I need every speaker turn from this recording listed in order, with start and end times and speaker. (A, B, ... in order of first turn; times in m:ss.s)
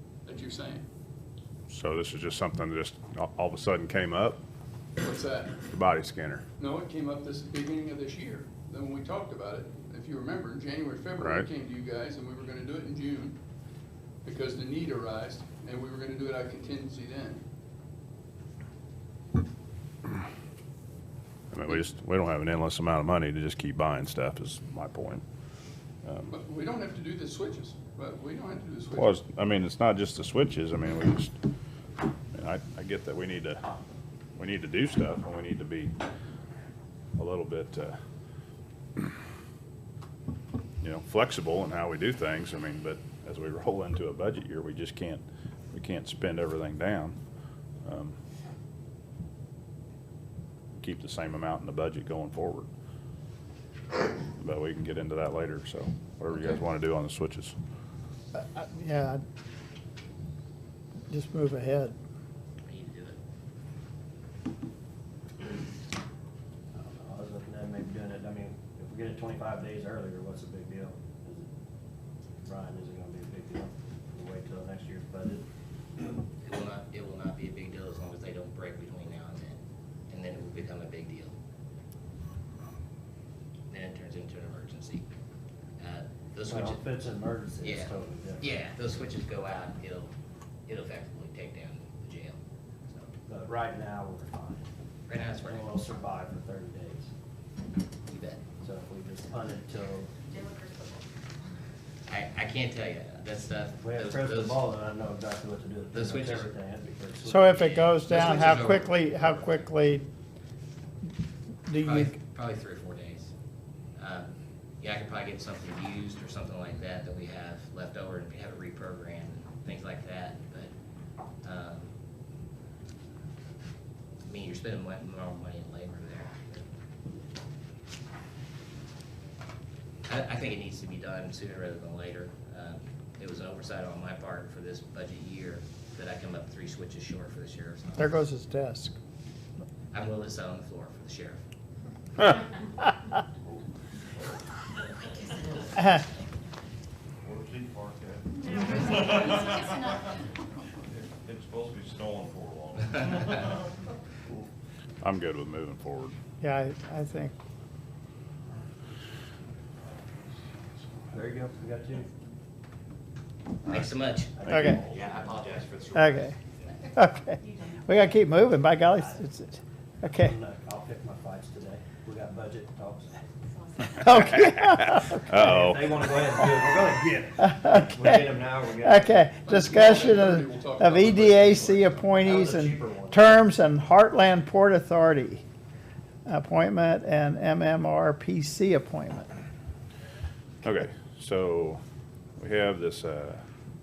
0:00.2-0:00.8 A
0:01.7-0:04.4 B
0:05.0-0:05.6 A
0:05.7-0:06.4 B
0:06.6-0:13.4 A
0:11.2-0:11.5 B
0:14.2-0:17.4 A
0:21.5-0:25.2 B
0:26.0-0:26.3 B
0:26.3-0:29.2 A
0:28.9-0:31.3 B
0:32.3-0:33.6 B
0:34.4-0:35.9 B
0:37.2-0:38.0 B
0:40.8-0:47.2 B
0:47.8-0:48.2 B
0:50.7-0:52.7 B
0:54.4-0:57.5 B
0:58.3-0:59.2 C
1:01.1-1:01.9 C
1:02.6-1:03.2 D
1:06.7-1:11.5 E
1:12.4-1:15.4 E
1:16.4-1:21.3 D
1:23.7-1:25.0 D
1:25.8-1:26.8 D
1:26.5-1:28.5 E
1:27.6-1:30.1 D
1:30.7-1:33.1 D
1:33.3-1:34.6 E
1:35.1-1:35.7 D
1:35.4-1:37.1 E
1:38.1-1:38.4 D
1:38.6-1:40.1 E
1:42.1-1:44.6 D
1:43.8-1:47.6 E
1:45.9-1:46.5 D
1:47.2-1:50.0 C
1:47.5-1:49.6 D
1:51.7-1:52.2 C
1:51.8-1:53.3 D
1:54.0-2:00.7 D
2:01.4-2:01.9 D
2:04.2-2:06.6 D
2:10.0-2:18.2 D
2:18.0-2:18.9 C
2:19.9-2:21.4 D
2:23.4-2:24.4 F
2:25.3-2:25.7 F
2:27.2-2:30.1 F
2:30.9-2:34.5 F
2:35.0-2:36.1 B
2:36.4-2:37.3 C
2:39.8-2:41.2 F
2:41.1-2:42.1 E
2:43.7-2:46.3 D
2:44.4-2:45.3 E
2:44.5-2:44.8 C
2:45.9-2:46.4 C
2:46.9-2:50.3 C
2:50.1-2:53.2 E
2:53.9-2:55.2 C
2:54.1-2:55.9 B
2:55.3-2:59.3 E
2:57.4-2:58.2 C
2:58.8-3:05.4 C
2:59.4-3:02.0 A
3:02.2-3:03.4 E
3:06.2-3:09.3 C
3:10.6-3:11.8 B
3:12.4-3:13.4 B